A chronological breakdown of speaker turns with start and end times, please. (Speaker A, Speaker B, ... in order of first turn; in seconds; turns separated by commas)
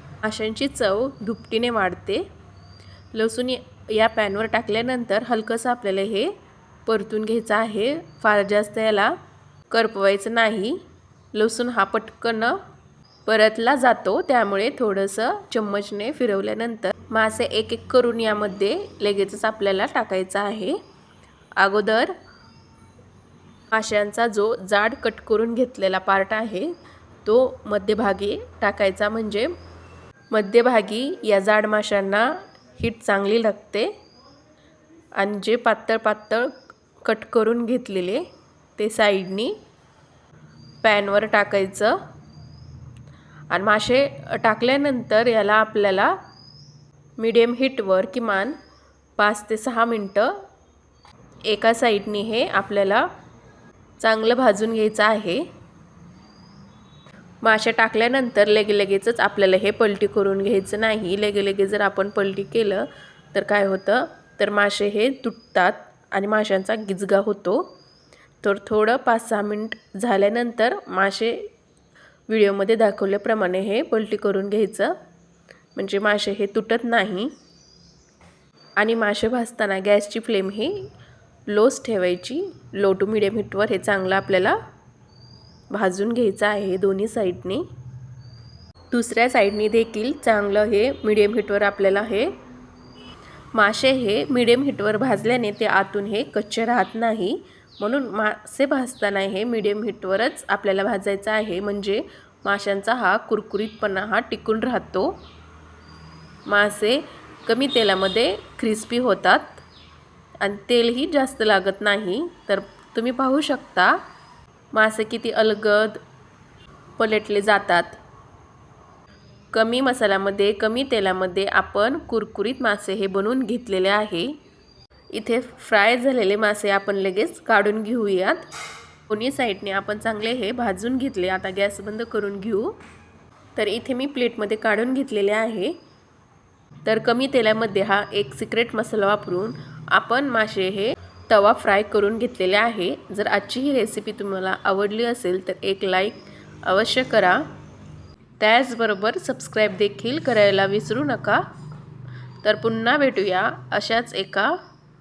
Speaker A: 0.2-2.2, Speaker A: 3.1-6.3, Speaker A: 6.9-9.1, Speaker A: 9.7-10.8, Speaker A: 11.3-12.6, Speaker A: 13.3-20.8, Speaker A: 21.6-22.1, Speaker A: 23.7-26.7, Speaker A: 27.2-29.5, Speaker A: 30.3-33.9, Speaker A: 35.2-38.2, Speaker A: 38.8-39.5, Speaker A: 40.8-42.0, Speaker A: 43.5-46.2, Speaker A: 47.2-48.6, Speaker A: 49.2-50.3, Speaker A: 51.5-53.1, Speaker A: 54.0-55.4, Speaker A: 57.4-67.7, Speaker A: 68.4-71.5, Speaker A: 72.3-75.0, Speaker A: 75.8-77.3, Speaker A: 78.8-80.9, Speaker A: 81.5-84.6, Speaker A: 85.7-87.7, Speaker A: 88.9-92.3, Speaker A: 93.5-105.2, Speaker A: 106.5-109.6, Speaker A: 110.4-113.9, Speaker A: 114.7-116.0, Speaker A: 117.0-118.0, Speaker A: 119.5-124.3, Speaker A: 125.1-128.4, Speaker A: 129.1-132.8, Speaker A: 133.6-135.8, Speaker A: 136.8-147.5, Speaker A: 148.4-151.4, Speaker A: 152.4-154.6